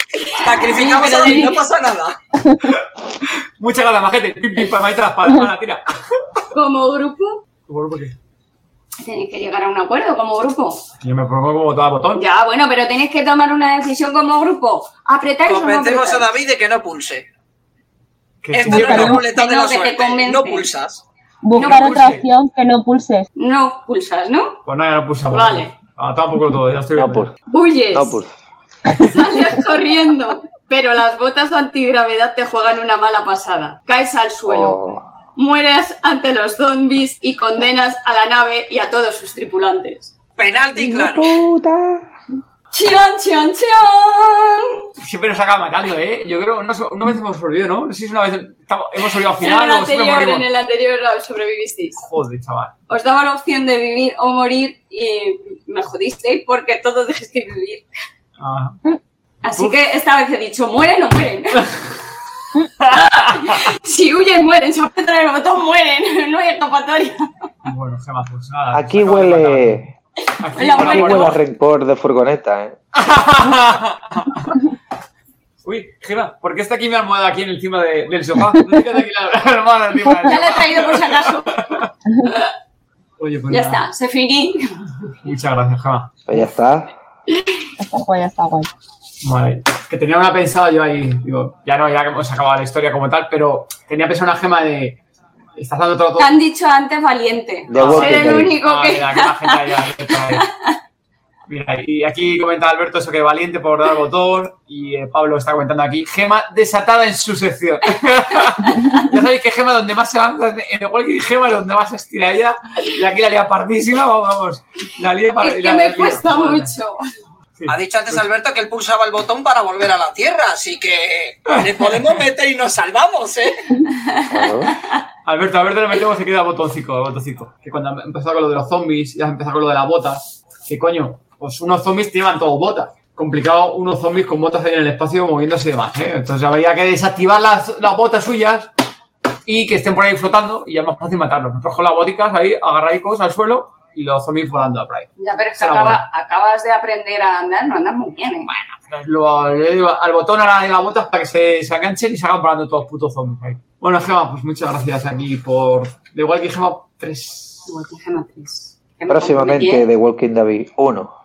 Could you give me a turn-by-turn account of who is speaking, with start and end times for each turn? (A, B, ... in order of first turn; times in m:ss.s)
0:00.3-0:01.6 A
0:00.3-0:02.2 B
0:02.5-0:02.8 C
0:02.7-0:06.3 D
0:06.5-0:07.4 A
0:07.7-0:08.2 D
0:09.0-0:10.9 A
0:11.0-0:12.2 D
0:12.2-0:16.3 A
0:15.5-0:17.3 B
0:18.4-0:19.2 D
0:18.5-0:21.0 B
0:18.6-0:19.2 C
0:19.2-0:20.7 A
0:21.4-0:23.3 C
0:21.5-0:22.2 D
0:21.6-0:21.8 A
0:23.4-0:24.6 A
0:24.7-0:27.3 D
0:25.3-0:25.7 A
0:27.0-0:27.3 E
0:27.5-0:28.2 A
0:27.9-0:28.4 E
0:29.0-0:34.8 A
0:34.5-0:35.0 E
0:35.4-0:40.1 A
0:40.4-0:41.3 B
0:40.8-0:42.1 E
0:42.7-0:44.8 A
0:45.0-0:50.4 D
0:49.4-0:52.0 A
0:52.0-0:52.7 D
0:52.9-0:57.9 A
0:58.4-0:58.8 D
0:59.4-1:01.7 A
1:02.8-1:03.6 D
1:02.9-1:07.5 A
1:07.6-1:09.9 D
1:08.7-1:09.9 E
1:10.4-1:11.4 D
1:10.5-1:11.4 A
1:10.8-1:12.8 E
1:13.0-1:14.6 D
1:15.6-1:21.9 D
1:20.2-1:21.6 A
1:23.2-1:23.8 D
1:23.5-1:24.9 A
1:25.2-1:26.2 D
1:26.3-1:26.9 E
1:27.3-1:27.5 A
1:27.8-1:28.7 C
1:29.2-1:35.0 D
1:35.6-1:36.3 D
1:36.2-1:40.8 A
1:37.7-1:38.6 E
1:37.7-1:40.5 D
1:41.5-1:56.7 D
1:48.6-1:49.0 A
1:55.4-1:57.0 A
1:57.6-1:58.2 D
1:57.7-2:03.6 B
2:01.5-2:02.2 D
2:03.9-2:05.0 A
2:04.3-2:04.7 E
2:05.2-2:18.7 D
2:19.5-2:26.0 D
2:25.2-2:28.5 A
2:28.5-2:37.7 D
2:37.7-2:39.9 A
2:39.1-2:41.1 E